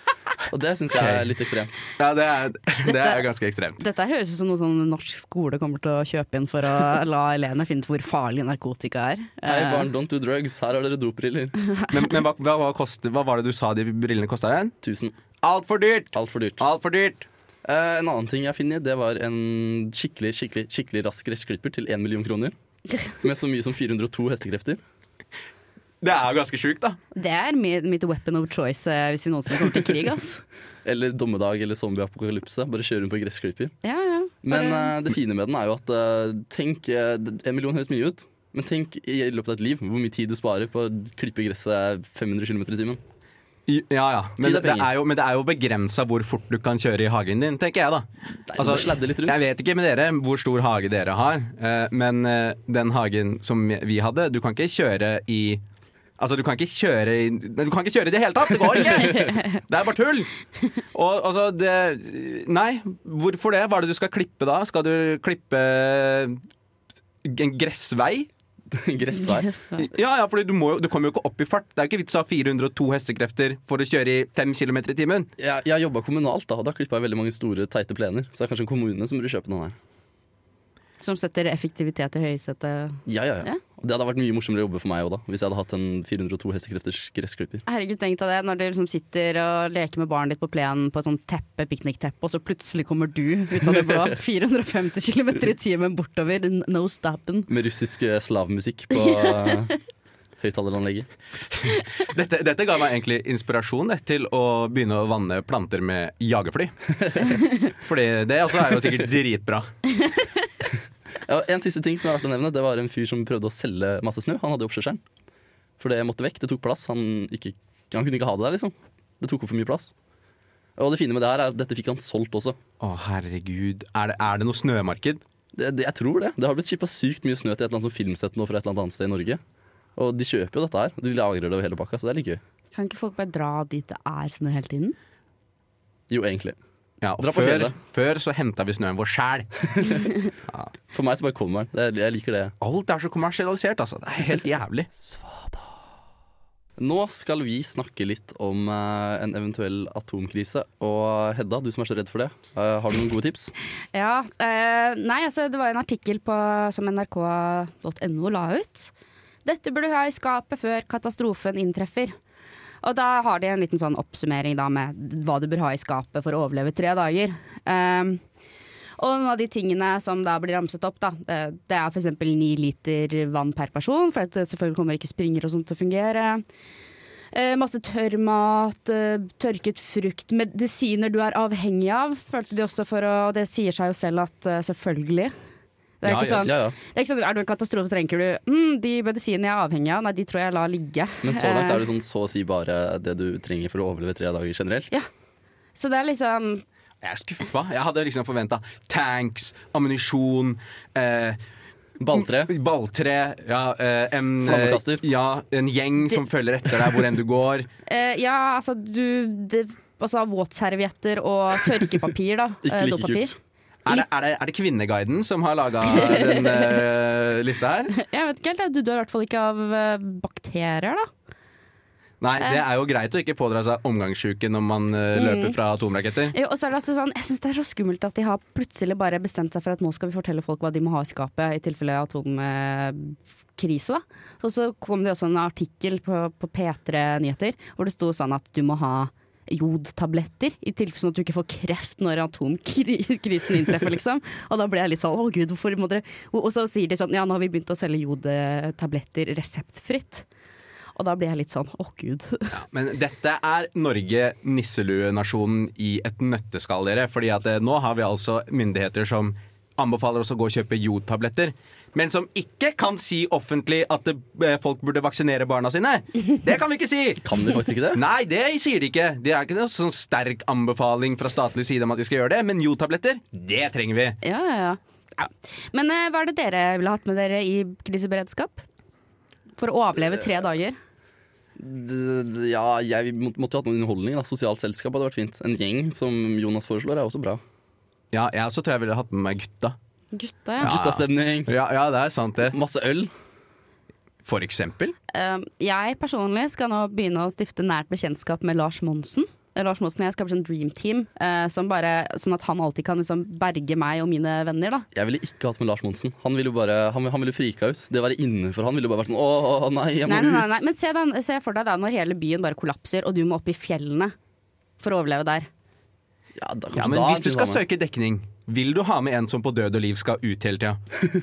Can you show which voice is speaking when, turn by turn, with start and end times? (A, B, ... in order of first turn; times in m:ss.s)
0:00.5-0:01.9 A
0:01.0-0:01.3 B
0:02.0-0:03.8 B
0:02.8-0:03.3 C
0:03.8-0:09.9 C
0:09.5-0:11.6 A
0:11.9-0:14.8 B
0:14.8-0:15.2 A
0:15.4-0:17.3 B
0:16.1-0:16.6 A
0:17.6-0:22.5 A
0:23.2-0:24.8 A
0:26.0-0:27.0 B
0:27.1-0:30.4 C
0:30.8-0:33.7 A
0:33.8-0:35.0 C
0:34.4-0:43.0 A
0:43.7-0:55.6 B
0:44.4-0:44.9 A
0:48.5-0:49.4 A
0:56.2-1:00.3 B
1:00.9-1:06.4 B
1:07.2-1:08.3 B
1:08.7-1:09.5 A
1:09.2-1:09.9 C
1:09.8-1:15.3 B
1:15.4-1:19.8 A
1:21.0-1:23.6 C
1:23.1-1:27.6 A
1:27.7-1:37.5 C
1:37.5-1:39.7 A
1:39.1-1:39.5 C
1:40.4-1:41.1 A
1:41.6-1:46.7 B
1:47.7-1:49.7 B
1:51.2-1:55.0 A
1:55.8-1:59.9 A
2:00.8-2:02.6 A
2:02.8-2:05.2 B
2:05.6-2:09.4 A
2:10.0-2:12.4 A
2:12.7-2:15.0 C
2:16.1-2:16.6 A
2:17.0-2:19.9 B
2:17.2-2:17.8 A
2:19.7-2:20.0 A
2:20.9-2:22.5 A
2:22.6-2:24.9 B
2:25.0-2:25.6 A
2:26.8-2:33.5 A
2:33.9-2:38.9 C
2:39.4-2:42.2 C
2:42.8-2:48.2 C
2:49.0-2:56.4 C
2:57.3-3:05.3 C
3:06.0-3:11.8 C
3:06.0-3:06.6 B
3:06.4-3:06.8 A
3:11.2-3:14.9 A
3:15.8-3:16.6 C
3:17.0-3:21.4 B
3:22.0-3:22.5 A
3:22.1-3:27.7 B
3:24.4-3:25.0 A
3:27.9-3:33.4 C
3:32.6-3:33.4 A
3:33.8-3:37.9 B
3:35.9-3:36.7 C
3:37.9-3:41.1 C
3:42.2-3:46.4 B
3:45.1-3:45.6 C
3:46.3-4:10.3 C
4:11.0-4:12.6 C
4:12.5-4:27.2 B
4:27.2-4:28.0 A
4:27.8-4:34.2 B
4:34.2-4:38.7 C
4:39.6-4:40.8 C
4:41.6-4:47.4 A
4:48.1-4:49.8 B
4:50.1-4:50.7 C
4:50.6-4:52.6 B
4:50.6-4:51.5 A
4:52.4-4:53.1 A
4:54.2-4:55.0 B
4:55.1-5:04.9 C
5:04.9-5:10.6 A
5:10.1-5:14.1 C
5:14.8-5:15.5 C
5:16.4-5:17.6 A
5:16.7-5:20.8 B